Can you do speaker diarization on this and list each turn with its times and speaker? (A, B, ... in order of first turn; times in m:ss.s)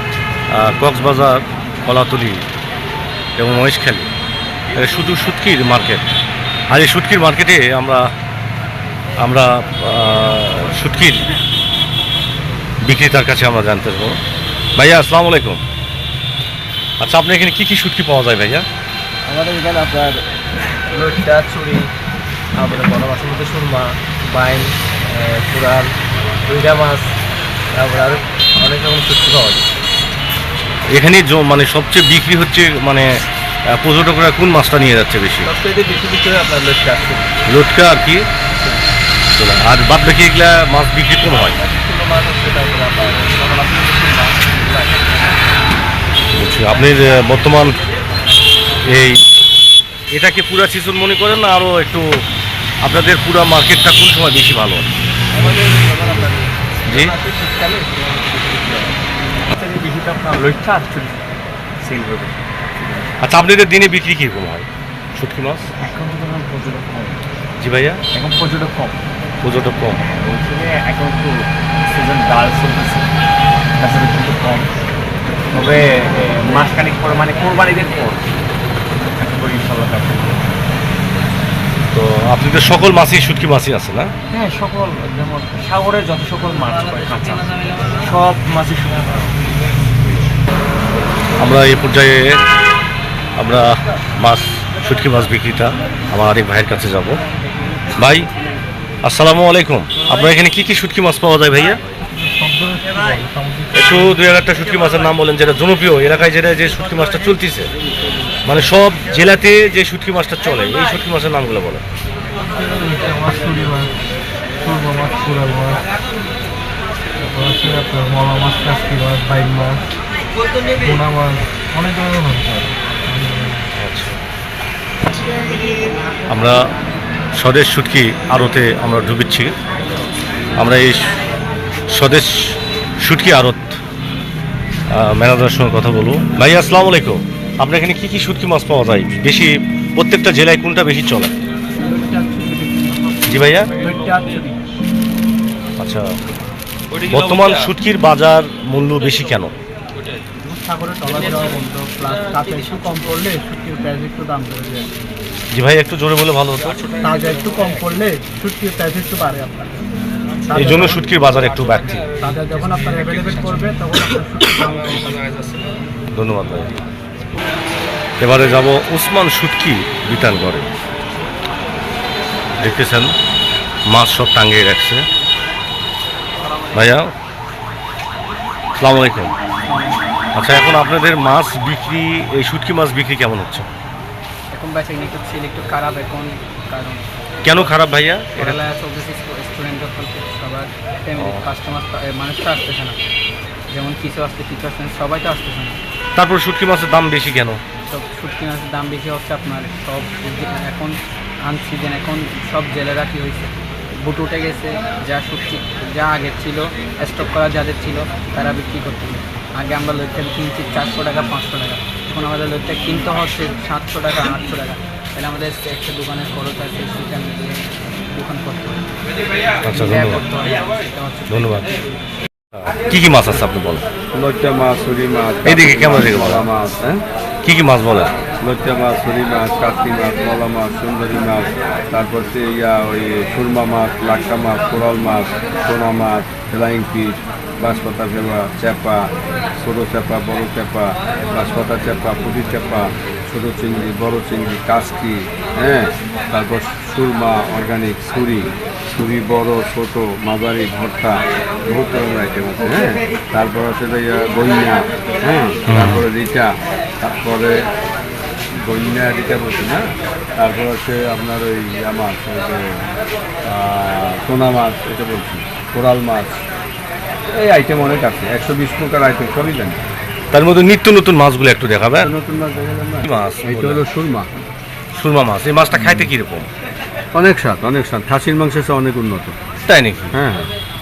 0:00.5-0:02.4 A
0:03.4-0:04.1 A
0:04.7-0:06.2 A
0:06.7-0:08.0 A
0:09.2-0:11.3 A
0:12.8-0:14.2 A
0:14.8-0:15.6 A
0:17.0-0:18.6 A
0:19.2-0:21.9 B
0:22.5-0:25.9 B
0:26.4-0:27.2 B
0:27.7-0:29.7 B
0:30.9-0:33.1 A
0:33.8-0:35.5 A
0:35.4-0:37.3 B
0:37.5-0:38.2 A
0:39.3-0:41.6 A
0:41.4-0:45.3 B
0:46.3-0:47.8 A
0:48.8-0:49.2 A
0:50.1-0:52.0 A
0:52.8-0:54.9 A
0:55.3-0:59.0 B
0:56.8-0:57.1 A
0:59.5-1:01.2 B
1:01.8-1:03.2 B
1:03.2-1:05.7 A
1:05.8-1:07.2 B
1:07.6-1:08.0 A
1:08.1-1:09.0 B
1:09.4-1:10.0 A
1:10.1-1:13.1 B
1:13.8-1:14.7 B
1:15.5-1:18.3 B
1:19.2-1:20.5 B
1:21.9-1:24.1 A
1:24.3-1:29.4 B
1:31.4-1:32.4 A
1:33.4-1:37.2 A
1:38.0-1:38.3 A
1:39.0-1:41.8 A
1:42.1-1:43.9 C
1:43.7-1:47.7 A
1:48.4-1:51.8 A
1:52.5-1:53.9 C
1:54.6-1:55.8 C
1:57.2-1:59.8 C
2:00.8-2:03.6 C
2:03.8-2:04.2 A
2:06.3-2:06.6 A
2:07.4-2:09.5 A
2:10.6-2:11.2 A
2:11.9-2:13.8 A
2:14.9-2:21.3 A
2:21.8-2:23.1 D
2:23.2-2:23.7 A
2:23.8-2:24.6 D
2:25.8-2:26.0 A
2:27.0-2:29.5 A
2:30.4-2:34.9 D
2:35.5-2:36.9 A
2:37.0-2:39.8 D
2:40.5-2:41.0 D
2:40.5-2:42.1 A
2:42.2-2:45.7 D
2:46.1-2:46.8 A
2:48.2-2:50.7 A
2:52.6-2:53.1 A
2:53.9-2:55.0 A
2:56.7-2:57.1 A
2:58.8-2:59.3 A
2:59.6-3:00.0 D
3:00.4-3:03.7 A
3:04.5-3:07.7 D
3:07.4-3:08.6 A
3:08.3-3:13.0 D
3:11.2-3:11.4 A
3:13.7-3:15.8 D
3:16.2-3:17.6 A
3:17.9-3:38.9 D
3:39.6-3:40.2 A
3:39.7-3:41.9 D
3:41.3-3:41.6 A
3:42.5-3:43.8 A
3:44.1-3:47.0 E
3:45.4-3:46.4 A
3:47.4-3:48.1 A
3:48.4-4:17.6 E
4:15.7-4:16.0 A
4:18.6-4:22.8 E
4:23.4-4:26.4 E
4:27.3-4:29.8 E
4:30.3-4:32.1 A
4:32.0-4:34.3 E
4:33.0-4:33.8 A
4:34.9-4:36.5 A
4:35.8-4:36.0 E
4:37.1-4:39.3 E
4:39.7-4:40.1 A
4:40.1-4:40.5 E